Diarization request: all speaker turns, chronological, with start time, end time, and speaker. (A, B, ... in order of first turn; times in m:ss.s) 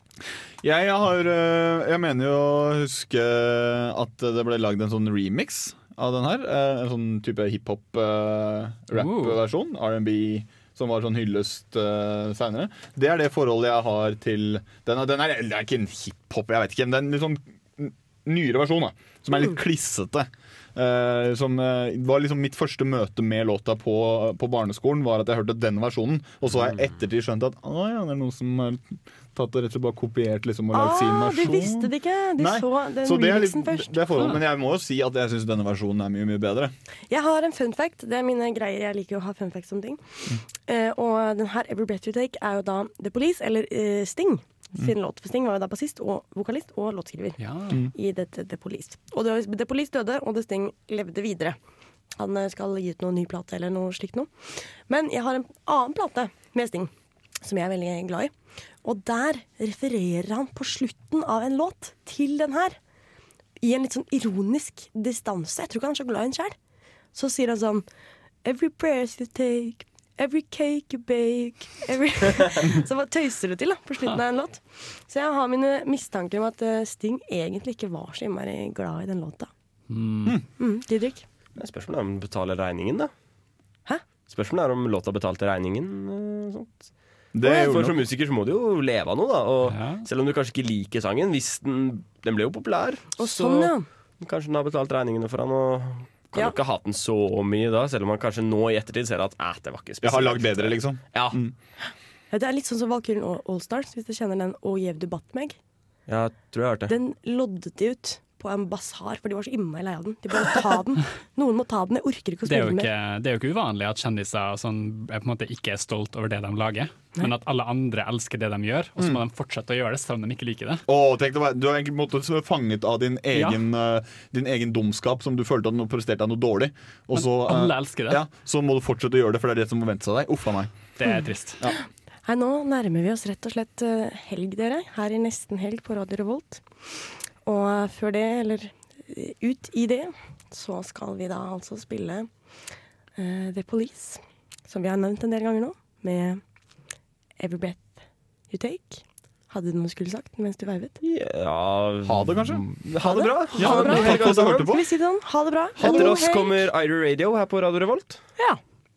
0:00.6-0:36.7 A
0:08.9-0:09.4 B
0:30.7-0:34.0 C
0:37.1-0:40.0 C
0:40.7-0:47.4 C
0:47.4-0:47.8 B
0:47.9-0:51.6 C
0:52.2-0:54.3 C
0:54.9-0:56.9 C
0:57.4-0:58.3 C
0:58.8-1:02.8 C
1:03.6-1:06.6 C
1:07.1-1:07.9 C
1:08.4-1:19.5 C
1:19.9-1:20.4 B
1:20.6-1:21.2 C
1:21.6-1:23.1 D
1:24.3-1:26.9 D
1:27.3-1:28.0 A
1:27.4-1:41.4 D
1:29.6-1:30.0 B
1:33.2-1:33.9 C
1:40.0-1:41.6 A
1:42.3-1:45.6 C
1:46.1-1:47.0 D
1:46.9-1:52.9 C
1:52.4-2:00.8 B
2:00.9-2:10.7 A
2:03.3-2:03.6 B
2:07.1-2:08.2 B
2:11.0-2:11.6 B
2:12.2-2:16.6 C
2:17.4-2:22.3 C
2:23.2-2:26.4 C
2:27.4-2:31.0 C
2:31.0-2:34.5 D
2:32.0-2:34.9 A
2:33.0-2:36.7 C
2:35.8-2:36.1 A
2:35.8-2:38.2 D